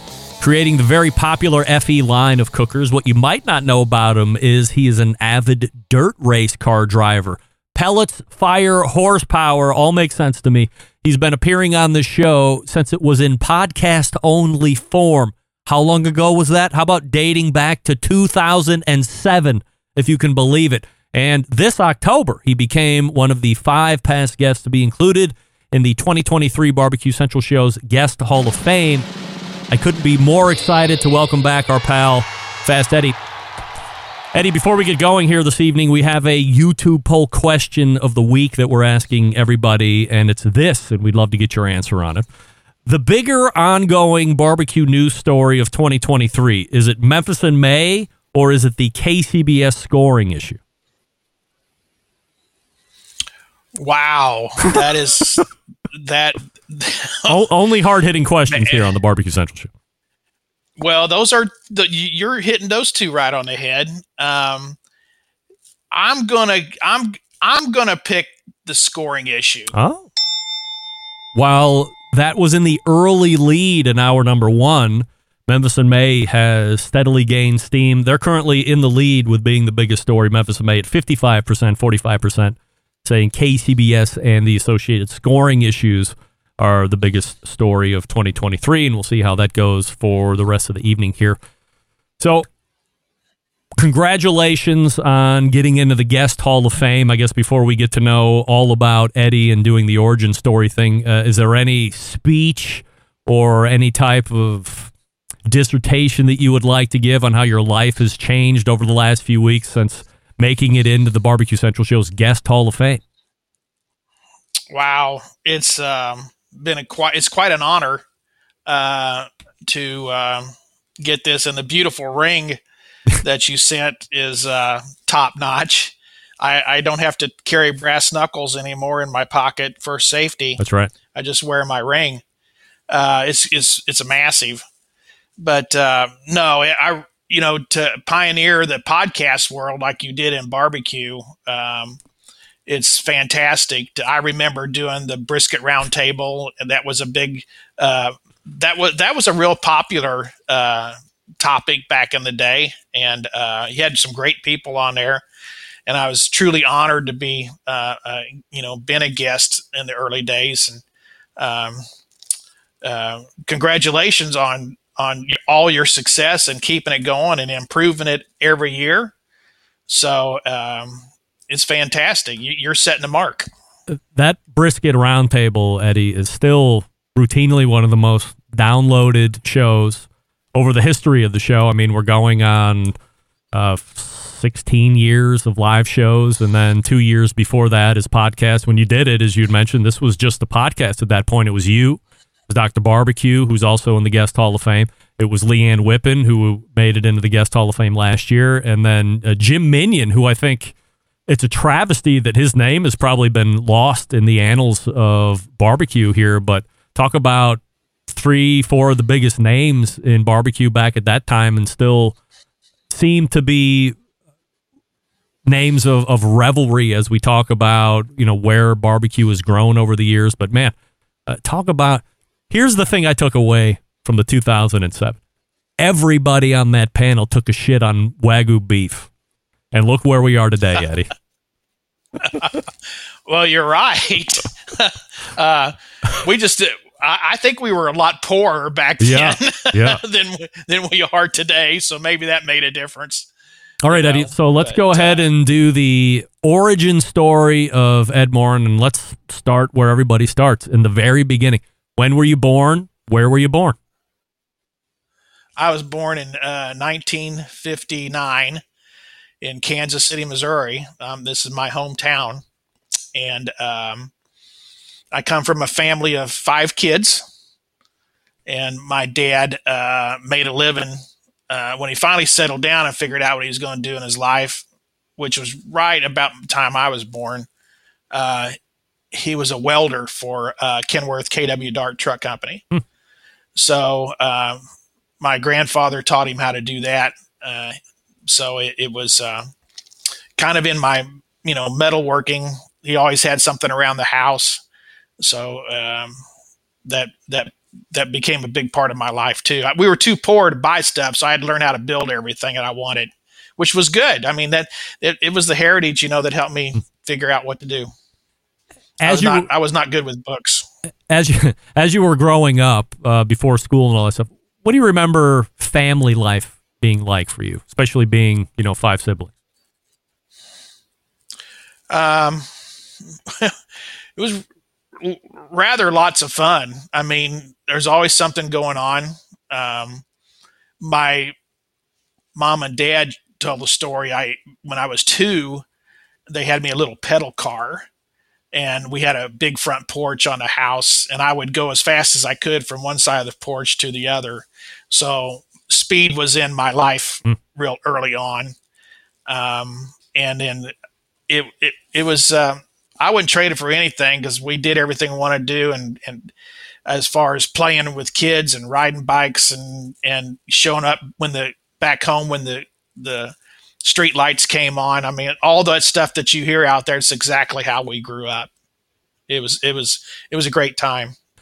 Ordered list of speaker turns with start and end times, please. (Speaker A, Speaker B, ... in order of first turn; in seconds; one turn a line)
Speaker A: 0.4-29.1
Speaker A: 29.7-33.1
Speaker A: 34.3-42.2
Speaker A: 42.9-50.6
Speaker B: 53.8-57.4
Speaker A: 57.3-59.7
Speaker B: 58.5-58.9
Speaker B: 60.8-64.8
Speaker B: 65.9-69.7
Speaker A: 69.7-70.1
Speaker A: 71.3-91.4
Speaker A: 92.2-92.5
Speaker A: 93.8-104.9
Speaker A: 105.5-113.0
Speaker B: 114.7-118.0
Speaker B: 118.7-122.6
Speaker B: 123.2-130.6
Speaker A: 130.6-130.9
Speaker B: 131.1-132.2
Speaker B: 132.9-134.6
Speaker B: 135.4-142.0
Speaker B: 142.7-155.2
Speaker B: 155.9-160.8
Speaker B: 161.4-161.8
Speaker B: 162.8-169.1
Speaker B: 169.9-173.5
Speaker A: 173.9-182.9
Speaker A: 183.5-200.7
Speaker A: 201.3-212.2
Speaker A: 212.9-213.9
Speaker A: 215.4-220.7
Speaker A: 221.3-225.2
Speaker A: 225.8-229.1
Speaker A: 229.7-231.1
Speaker B: 232.2-232.5
Speaker B: 233.3-243.3
Speaker A: 239.0-240.0
Speaker A: 243.8-253.8
Speaker B: 243.8-245.2
Speaker B: 255.6-258.6
Speaker B: 259.4-262.4
Speaker B: 263.1-264.1
Speaker B: 265.1-267.2
Speaker B: 268.4-271.0
Speaker B: 271.5-274.6
Speaker B: 275.2-277.5
Speaker B: 278.1-278.5
Speaker B: 279.1-282.6
Speaker B: 283.5-284.6
Speaker B: 285.2-289.4
Speaker B: 290.4-294.6
Speaker B: 295.2-296.1
Speaker B: 296.9-307.9
Speaker A: 309.0-309.5
Speaker B: 309.0-310.6
Speaker A: 311.1-319.3
Speaker B: 321.9-322.5
Speaker B: 324.2-324.4
Speaker B: 325.0-330.0
Speaker B: 330.8-331.3
Speaker B: 332.3-335.6
Speaker B: 336.3-337.9
Speaker B: 338.5-348.5
Speaker B: 349.3-350.7
Speaker B: 351.3-356.3
Speaker B: 356.9-368.5
Speaker B: 369.3-371.1